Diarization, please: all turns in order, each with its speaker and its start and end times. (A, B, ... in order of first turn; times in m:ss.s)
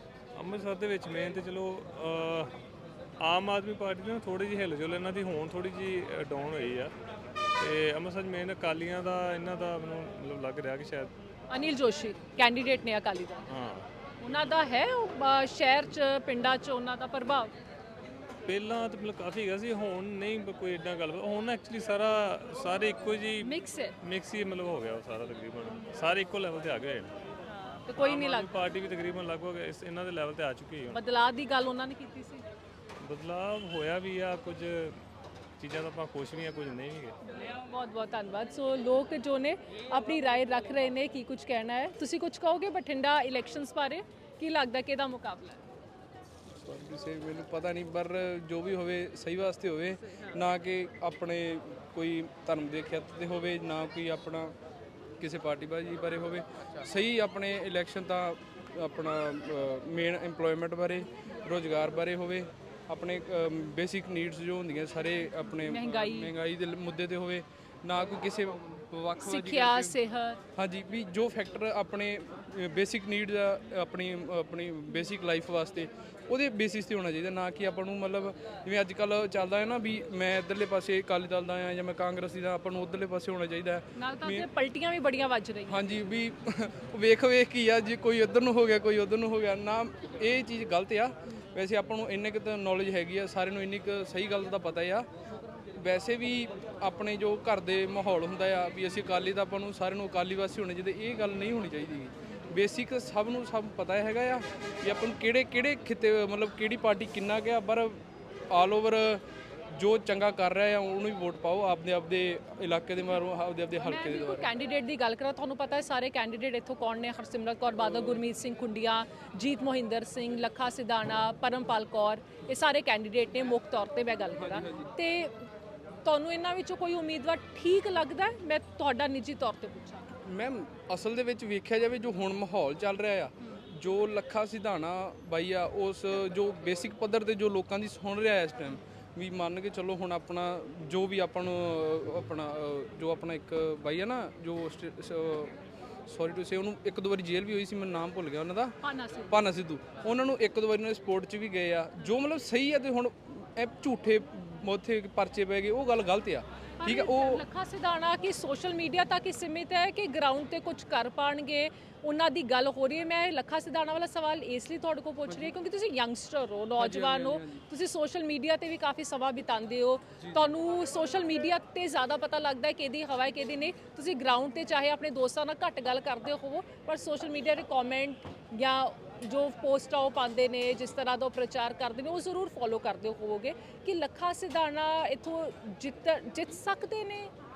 0:00.3-0:02.5 A
0:03.2-0:06.9 A
0:07.6-0:11.1 A
0:11.5-0:13.4 B
0:13.5-0:13.8 A
0:14.2-0:17.5 B
0:18.4-0:27.1 A
0:23.4-0:23.9 B
0:27.9-0:28.5 B
0:27.9-0:31.0 A
0:30.9-0:32.4 B
0:33.0-0:35.0 A
0:35.6-0:37.1 A
0:37.3-0:45.6 B
0:46.6-0:54.5 C
0:55.2-1:10.0 C
1:05.6-1:06.3 B
1:09.2-1:10.4 B
1:10.6-1:24.5 C
1:24.0-1:25.8 B
1:25.7-1:35.0 C
1:35.8-1:48.0 C
1:48.5-1:49.2 C
1:49.7-1:54.5 C
1:53.8-2:05.5 B
2:04.4-2:04.9 C
2:06.0-2:10.1 B
2:10.2-2:25.5 C
2:26.1-2:28.8 C
2:28.8-2:29.4 B
2:29.3-2:37.4 C
2:36.8-3:07.3 B
2:46.8-2:47.6 C